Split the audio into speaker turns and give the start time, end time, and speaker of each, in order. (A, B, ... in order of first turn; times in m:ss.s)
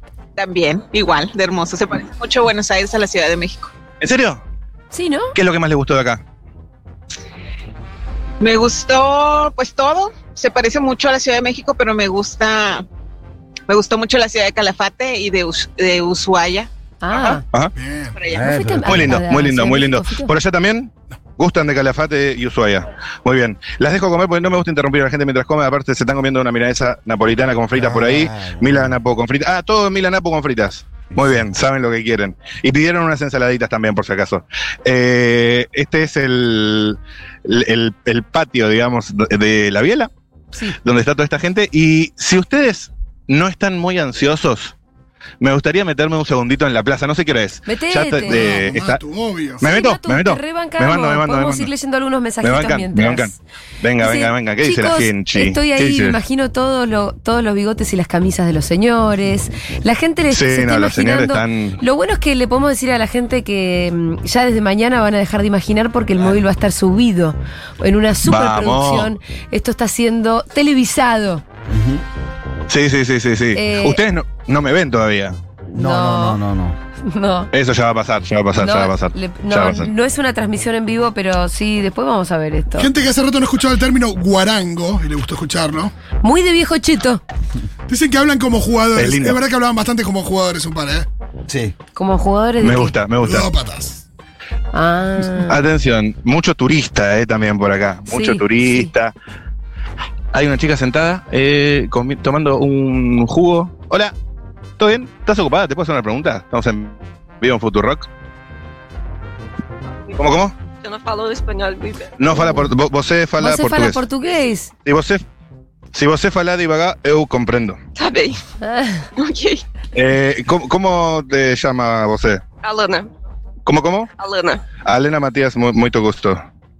0:00.4-0:03.7 A
0:04.0-0:04.4 B
0:04.9-0:05.3 C
0:05.3-0:06.2 B
0:08.4-0:12.8 A
0:13.7-0:16.7 A
0:17.0-0:17.4 C
0:17.8-0:18.2 D
0:18.3-0:19.2 E
0:18.4-0:20.3 C
0:18.9-0:40.1 B
0:27.7-0:29.0 E
0:31.1-0:31.5 E
0:40.8-0:44.7 B
0:45.4-0:49.0 B
0:47.6-0:48.4 C
0:48.3-0:49.6 D
0:49.6-0:51.7 B
0:49.6-0:53.3 C
0:52.4-0:56.2 B
0:54.0-1:11.4 C
1:00.3-1:01.8 B
1:08.2-1:09.1 B
1:11.7-1:12.0 E
1:12.7-1:15.4 B
1:13.6-1:14.0 C
1:15.7-1:16.8 E
1:15.7-1:16.4 C
1:17.0-1:17.5 C
1:17.5-1:19.9 B
1:18.6-1:22.9 C
1:22.8-1:25.9 D
1:26.2-1:27.2 C
1:27.9-1:31.0 D
1:28.9-1:29.4 B
1:31.5-1:31.7 E
1:32.0-1:32.9 C
1:32.6-1:33.5 B
1:33.2-1:34.0 D
1:34.7-1:35.6 C
1:35.4-1:39.1 B
1:38.1-1:38.9 C
1:40.3-1:44.1 B
1:44.8-1:48.1 B
1:50.2-1:50.6 B
1:50.8-1:52.1 F
1:52.2-1:54.0 B
1:52.3-1:52.6 C
1:53.4-1:54.7 C
1:54.8-1:55.2 B
1:55.9-1:57.8 B
1:57.9-1:58.4 F
1:58.6-1:59.0 C
1:59.2-1:59.6 F
1:59.9-2:02.4 B
2:02.6-2:03.1 F
2:03.6-2:04.1 B
2:04.2-2:04.6 F
2:04.8-2:06.4 B